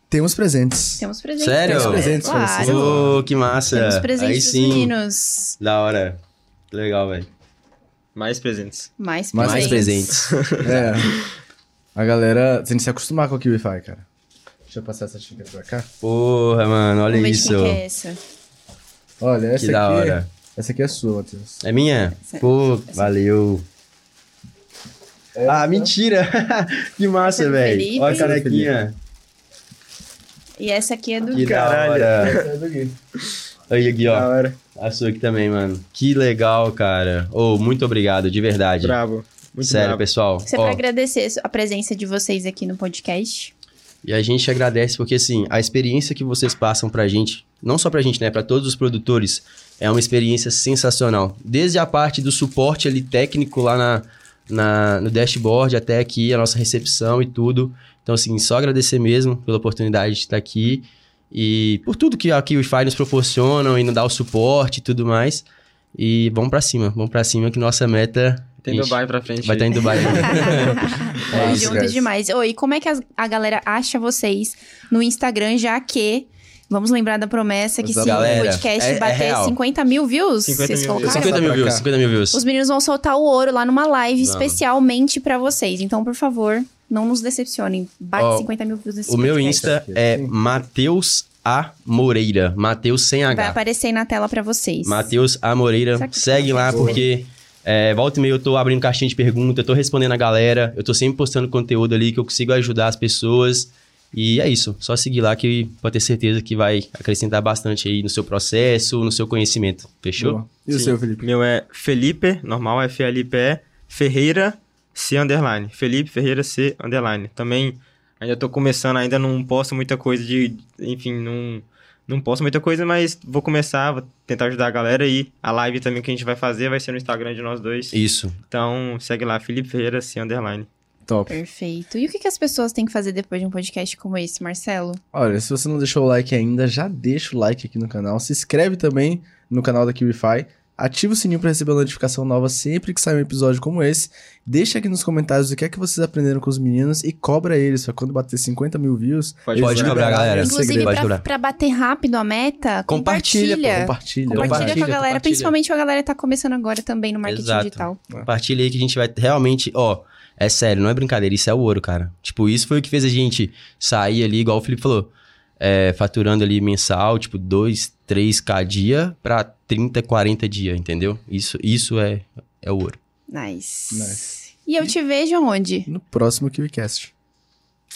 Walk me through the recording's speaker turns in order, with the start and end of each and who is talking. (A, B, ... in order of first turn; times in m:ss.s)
0:00.1-0:01.0 A
0:01.0-0:03.1 B
0:01.4-0:04.9 C
0:01.6-0:03.2 A
0:03.7-0:05.6 B
0:05.6-0:07.3 C
0:08.1-0:08.9 D
0:09.0-0:10.1 B
0:09.3-0:09.8 A
0:09.3-0:10.9 C
0:10.2-0:11.1 D
0:10.6-0:11.2 A
0:11.9-0:14.0 A
0:14.7-0:15.9 A
0:16.0-0:17.8 C
0:17.1-0:18.2 B
0:19.2-0:21.6 A
0:19.6-0:20.3 C
0:21.6-0:23.6 C
0:22.3-0:23.1 B
0:25.4-0:25.9 A
0:25.5-0:29.0 C
0:27.2-0:28.4 B
0:28.0-0:28.7 A
0:30.6-0:31.7 B
0:31.3-0:32.4 C
0:31.3-0:32.5 D
0:32.2-0:32.9 A
0:33.7-0:39.0 C
0:34.0-0:34.6 D
0:38.8-0:40.0 D
0:39.6-0:40.8 C
0:40.5-0:43.5 B
0:44.0-1:11.8 C
1:08.6-1:10.6 D
1:09.9-1:21.4 B
1:11.3-1:12.1 A
1:17.8-1:18.6 A
1:18.0-1:19.6 C
1:20.4-1:21.8 D
1:21.0-1:22.4 C
1:21.0-1:21.8 A
1:22.3-1:29.7 B
1:24.2-1:24.6 C
1:28.2-1:28.5 C
1:29.1-1:33.6 C
1:29.5-1:30.3 A
1:33.3-1:35.1 B
1:34.8-1:50.4 C
1:36.0-1:37.0 B
1:36.7-1:37.0 A
1:50.2-1:51.2 A
1:50.7-2:08.0 D
2:07.9-2:08.4 C
2:08.5-2:10.7 D
2:11.0-2:11.4 A
2:11.3-2:15.0 B
2:15.1-2:31.1 A
2:29.4-2:30.4 D
2:29.6-2:31.2 C
2:30.4-2:38.0 B
2:32.9-2:35.5 C
2:33.7-2:34.8 A
2:34.4-2:35.4 D
2:37.2-2:53.0 C
2:53.3-2:55.9 B
2:53.9-2:54.2 A
2:55.8-2:57.1 A